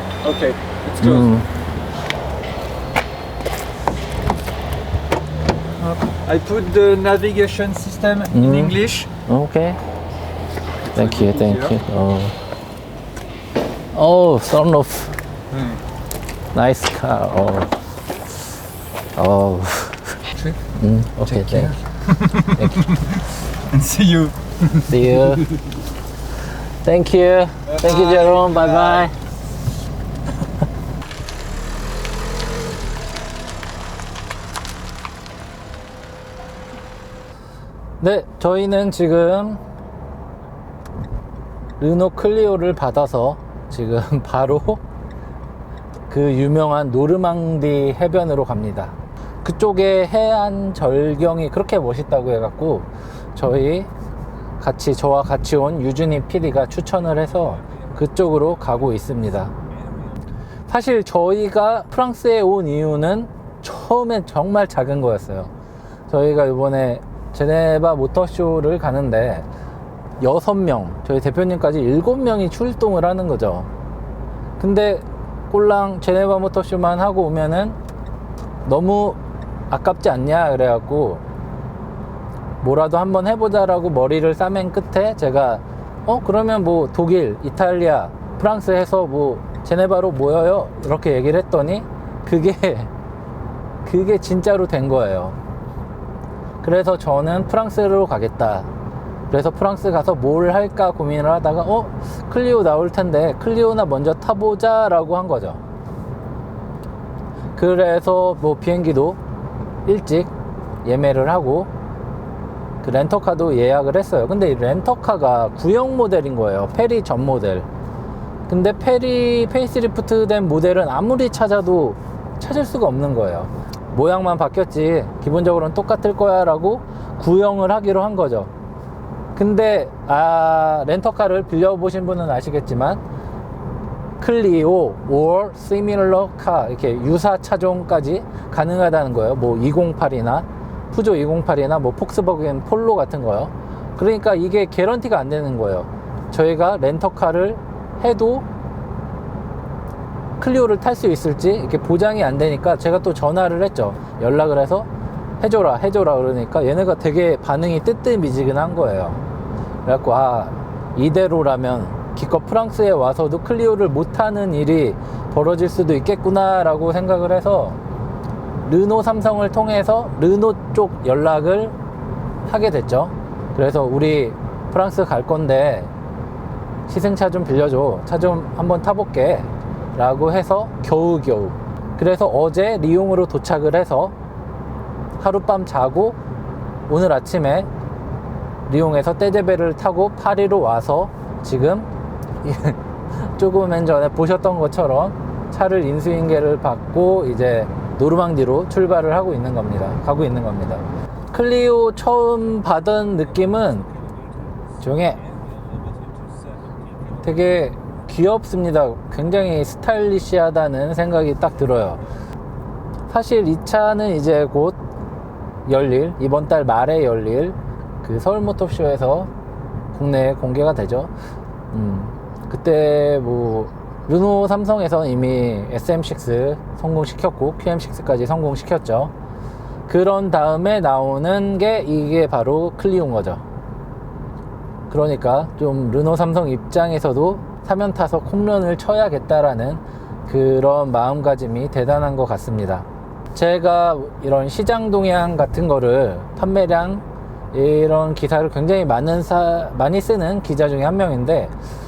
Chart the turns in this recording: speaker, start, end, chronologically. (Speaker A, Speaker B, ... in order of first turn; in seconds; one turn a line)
Speaker A: 0.2-1.3
Speaker B: 1.0-1.5
Speaker A: 5.8-9.1
Speaker B: 8.3-9.8
Speaker A: 10.9-11.8
Speaker B: 10.9-12.4
Speaker B: 13.9-15.2
Speaker B: 16.5-17.8
Speaker B: 19.2-21.8
Speaker A: 21.5-22.7
Speaker B: 22.4-22.9
Speaker A: 23.6-25.0
Speaker B: 24.8-25.5
Speaker B: 26.8-29.2
Speaker A: 27.7-29.0
Speaker B: 38.0-39.6
Speaker B: 41.8-44.8
Speaker B: 46.1-53.9
Speaker B: 54.6-59.5
Speaker B: 60.7-65.5
Speaker B: 66.1-69.5
Speaker B: 70.2-73.7
Speaker B: 74.6-77.8
Speaker B: 78.7-79.2
Speaker B: 79.7-81.2
Speaker B: 82.6-92.9
Speaker B: 93.8-95.4
Speaker B: 96.6-98.7
Speaker B: 99.3-105.6
Speaker B: 107.5-109.2
Speaker B: 109.9-110.3
Speaker B: 110.8-111.7
Speaker B: 112.8-117.7
Speaker B: 118.5-128.5
Speaker B: 129.3-133.0
Speaker B: 134.2-148.5
Speaker B: 150.4-154.9
Speaker B: 155.4-159.2
Speaker B: 159.8-167.8
Speaker B: 168.7-171.8
Speaker B: 172.5-175.9
Speaker B: 176.9-184.2
Speaker B: 185.2-186.2
Speaker B: 186.9-187.7
Speaker B: 188.7-191.9
Speaker B: 192.4-203.9
Speaker B: 204.8-205.2
Speaker A: 205.3-206.9
Speaker B: 207.2-212.0
Speaker B: 213.1-214.8
Speaker B: 215.7-219.3
Speaker B: 219.9-221.1
Speaker B: 221.7-229.1
Speaker B: 229.9-233.4
Speaker B: 234.9-251.5